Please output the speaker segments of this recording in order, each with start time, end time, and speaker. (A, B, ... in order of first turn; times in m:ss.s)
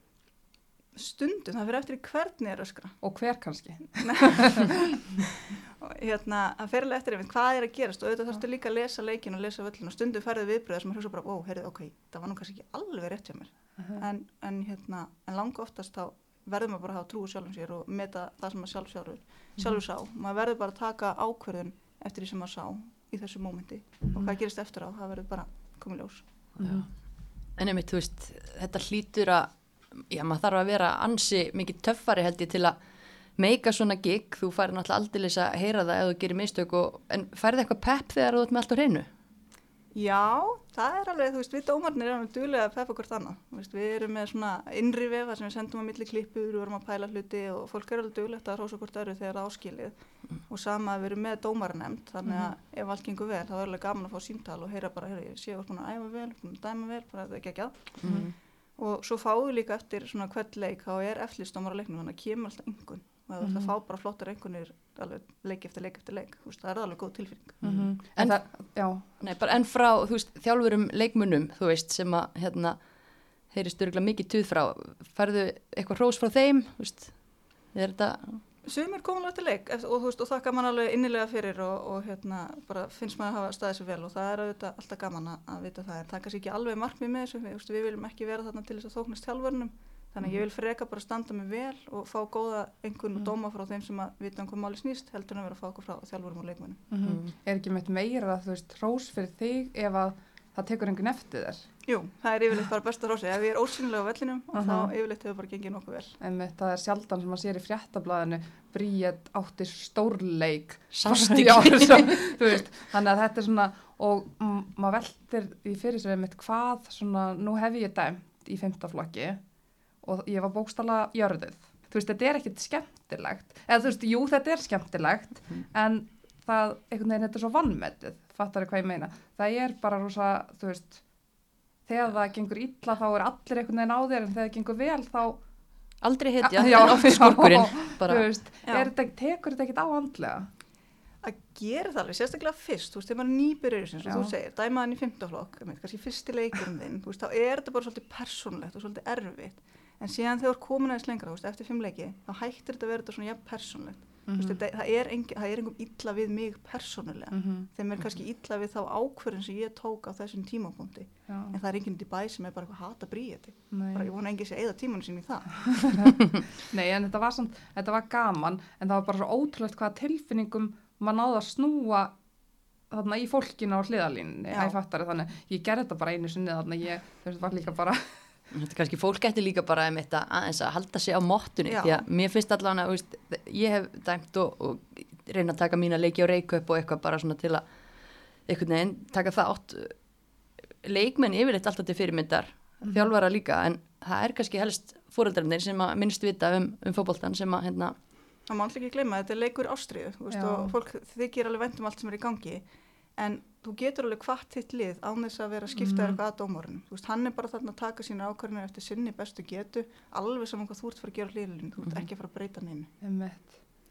0:00.9-0:03.0 A
0:03.0-0:05.2 B
0:04.0-0:04.6 A
0:05.4-0:26.3 A
0:13.8-0:14.0 B
0:24.1-0:24.3 B
0:26.6-0:32.8 C
0:26.6-0:26.8 B
0:33.3-0:39.1 C
0:39.9-0:49.9 A
0:50.5-0:58.2 A
0:52.2-0:52.5 B
0:58.0-0:58.3 C
0:58.0-0:58.3 B
0:58.8-1:07.6 A
1:03.4-1:03.7 B
1:07.6-1:18.4 C
1:07.6-1:09.2 B
1:18.6-1:36.8 A
1:36.9-1:41.6 B
1:37.0-1:37.3 C
1:41.8-1:46.2 A
1:44.5-1:44.9 B
1:46.2-1:59.4 B
1:50.9-1:52.6 C
2:00.0-2:11.0 B
2:11.8-2:15.4 B
2:16.0-2:18.2 C
2:16.4-2:20.5 B
2:18.7-2:18.9 A
2:21.2-2:46.0 A
2:24.0-2:24.3 B
2:34.3-2:34.6 B
2:37.3-2:37.7 B
2:41.3-2:41.6 B
2:43.7-2:44.1 B
2:45.6-2:52.1 B
2:52.9-2:58.3 B
2:54.5-2:54.8 A
2:58.5-3:07.7 C
3:01.7-3:02.0 A
3:08.4-3:10.0 C
3:10.8-3:18.0 C
3:18.5-3:32.9 A
3:20.3-3:20.7 B
3:25.7-3:26.2 B
3:33.0-3:33.6 B